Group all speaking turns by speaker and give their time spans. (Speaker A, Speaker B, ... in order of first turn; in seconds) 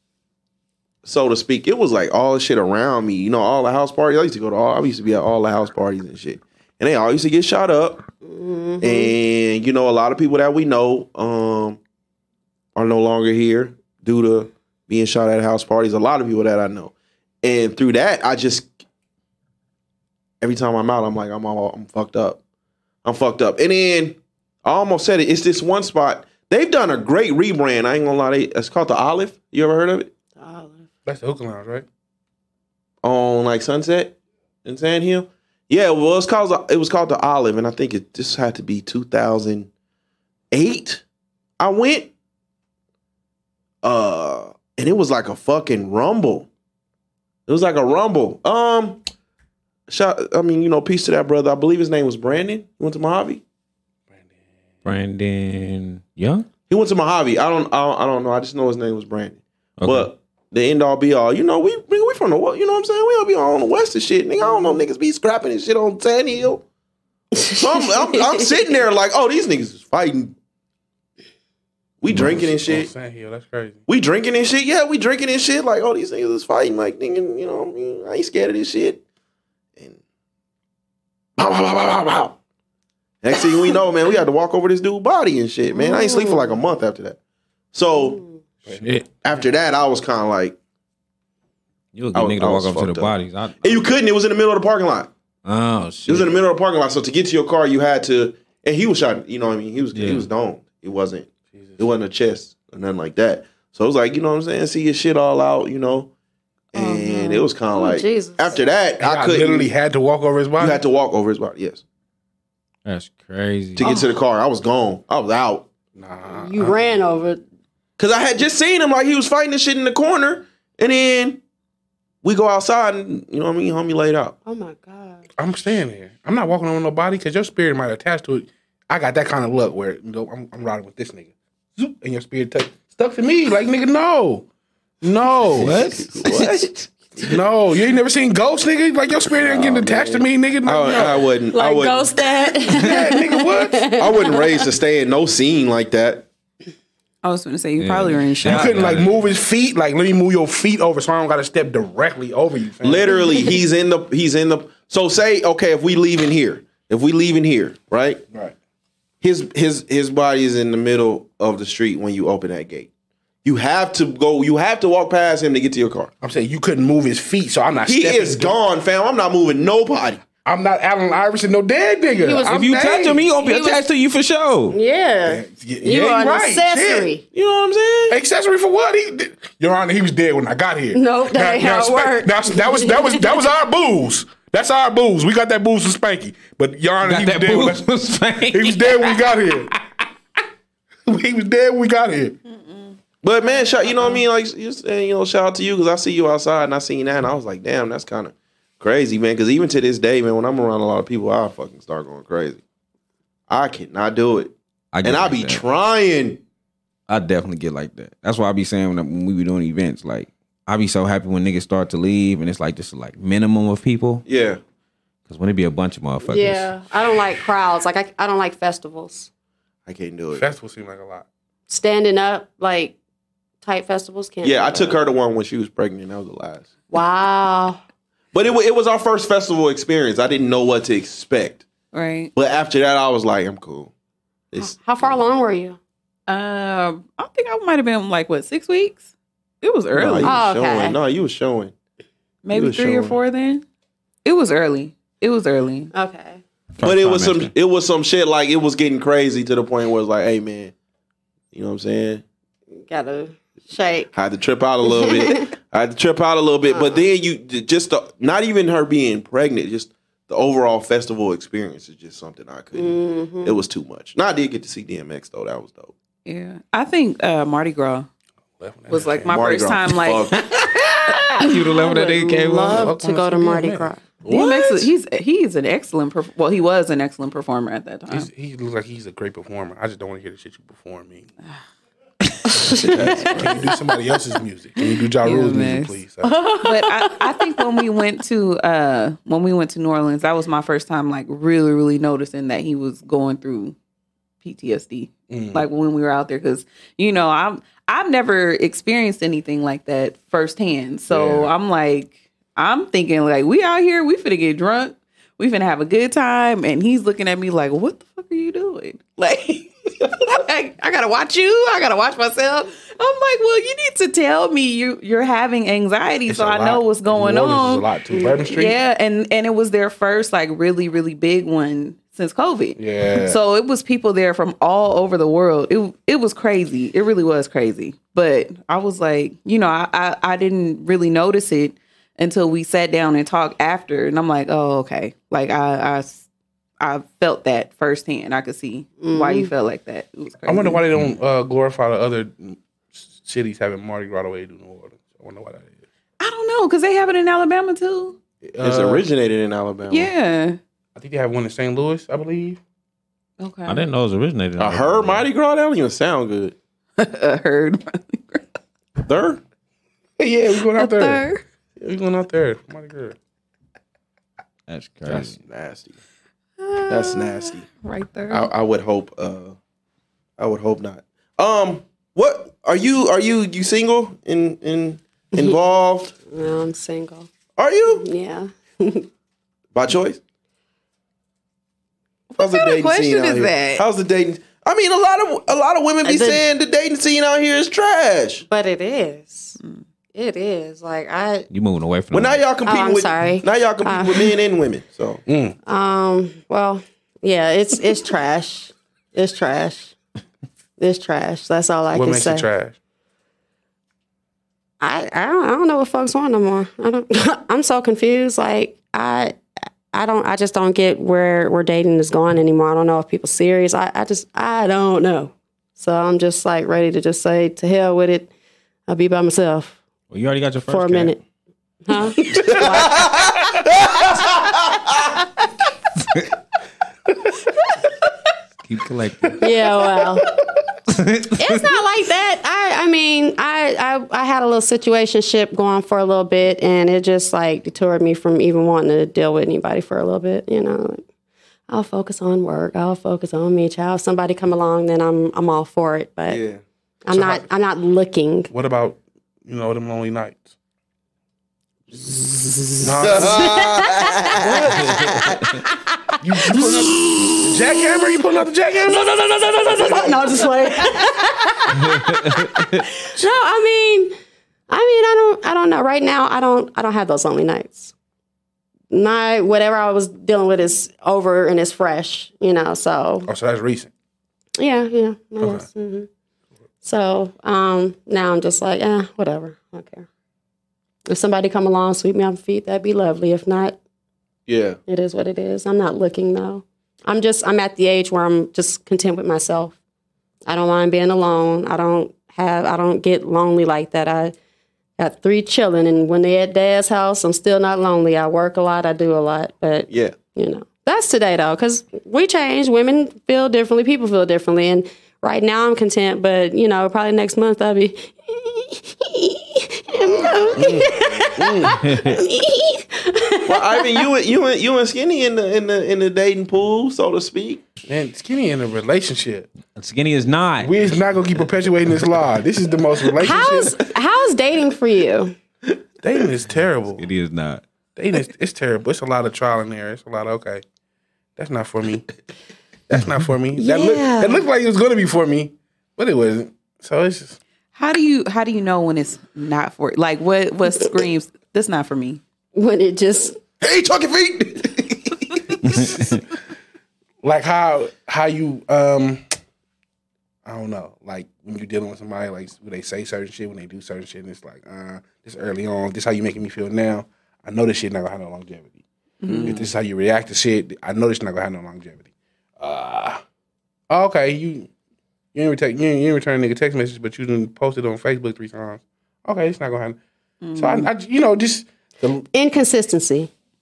Speaker A: 1.0-8.1, 8.8-11.8, 12.7-16.9, 17.4-18.7, 20.4-22.4, 23.0-30.1, 33.0-39.7, 40.5-41.0, 41.6-42.1, 43.8-46.5, 47.5-49.0, 49.9-53.4, 56.7-66.6, 67.5-70.3, 72.0-72.9, 73.9-79.0, 81.4-82.3, 83.2-87.2, 87.7-88.2, 89.2-90.6, 92.1-95.1, 96.0-106.1, 106.7-109.7, 110.6-111.8, 113.8-115.7, 118.0-121.4, 122.2-124.3, 135.6-137.3, 139.4-142.1, 144.0-146.3, 152.8-158.2, 159.2-162.9, 163.4-166.1, 167.8-170.2, 177.3-178.2, 193.2-202.6, 203.5-206.4, 214.2-214.6, 219.9-220.4, 224.4-226.7, 228.3-231.6, 232.3-233.9, 234.5-235.1, 239.9-241.7, 242.5-243.2, 246.8-250.7, 251.5-252.2, 254.1-265.9, 269.3-270.4, 274.2-274.9, 282.7-283.6, 348.6-350.1, 354.6-356.6, 359.1-359.4, 365.1-366.0, 366.9-367.6, 368.3-369.6, 370.4-376.1, 377.6-378.1, 379.7-380.2, 382.4-388.4, 392.1-395.2, 422.4-425.1, 446.3-446.6, 453.0-455.3, 484.5-484.8, 499.9-500.1, 509.9-511.5, 513.5-517.6, 543.6-545.9, 559.3-559.5
Speaker B: 8.2-9.1, 30.4-30.9, 85.7-86.6, 87.9-88.4, 106.7-108.6, 116.3-117.4, 124.4-125.2, 141.5-144.5, 153.1-153.5, 172.1-173.8, 174.7-177.2, 180.9-183.3, 216.2-219.3, 221.7-223.0, 223.6-225.0, 226.9-227.8, 234.6-235.8, 240.2-240.9, 245.9-246.4, 252.8-254.1, 254.8-255.5, 256.7-257.0, 262.7-263.6, 271.4-274.0, 286.2-287.6, 318.1-318.4, 339.0-339.5, 376.3-377.3, 377.9-379.1, 386.0-386.4, 388.5-389.6, 390.1-391.5, 392.6-394.3, 395.6-399.9, 400.8-402.5, 404.8-409.4, 409.9-418.3, 418.9-419.8, 420.7-421.2, 421.9-423.4, 429.4-430.3, 431.4-441.0, 441.7-446.4, 447.0-448.5, 452.1-455.8, 456.4-458.0, 458.9-464.1, 464.7-467.9, 468.9-473.3, 474.6-476.1, 476.8-480.1, 481.1-483.8, 484.9-489.8, 490.4-494.3, 495.0-514.0, 523.2-525.3, 533.6-534.4, 542.5-543.4, 572.3-573.3
Speaker C: 31.1-31.8, 72.1-73.8, 88.7-89.1, 109.0-110.8, 115.9-116.9, 125.4-134.4, 135.0-135.8, 137.2-141.2, 142.7-143.9, 148.4-153.1, 166.2-168.5, 170.4-173.3, 175.2-177.1, 178.1-187.9, 188.4-189.7, 191.1-192.4, 220.3-221.2, 268.6-269.5, 272.7-273.9, 278.1-281.3, 282.8-286.3, 295.3-295.6, 301.1-301.5, 316.3-318.8, 322.8-323.4, 340.4-345.7, 348.4-349.0, 350.9-352.6, 360.2-361.3, 361.8-363.1, 395.2-395.6, 401.9-402.8, 447.1-447.4, 448.5-450.5, 452.8-453.5, 454.4-454.7, 456.2-460.5, 473.3-473.9, 475.4-475.7, 510.5-511.7, 517.9-519.5, 520.6-523.8, 526.0-527.0, 528.0-530.6, 531.4-532.1, 532.9-537.4, 547.2-549.2, 550.4-558.8, 559.4-562.1, 562.6-563.2, 563.9-564.7, 565.3-570.0, 570.5-572.2
Speaker D: 54.8-56.5, 59.8-60.1, 91.9-93.9, 95.4-96.3, 99.9-100.3, 112.8-113.9, 135.6-136.2, 147.8-149.1, 172.4-174.8, 187.0-189.4, 204.9-205.6, 207.1-214.2, 215.3-216.7, 246.8-247.5, 270.3-272.9, 353.6-355.2, 364.7-365.4, 391.5-392.4, 420.1-421.2, 426.0-426.3, 428.6-429.5, 430.9-431.8, 461.9-462.6, 511.8-512.2, 519.7-520.7, 527.0-527.6
Speaker E: 147.2-148.8, 192.5-193.0, 231.9-232.3, 236.3-239.0, 239.6-240.4, 242.4-243.6, 244.2-245.9, 266.2-268.1, 268.9-270.4, 274.3-278.3, 284.8-286.0, 286.6-293.7, 294.4-317.9, 318.4-336.2, 336.8-340.8, 346.2-348.2, 349.9-350.6, 353.4-353.9, 357.0-358.4, 360.7-361.4, 366.6-368.5, 382.3-383.8, 537.8-542.2, 559.2-559.6, 570.4-570.9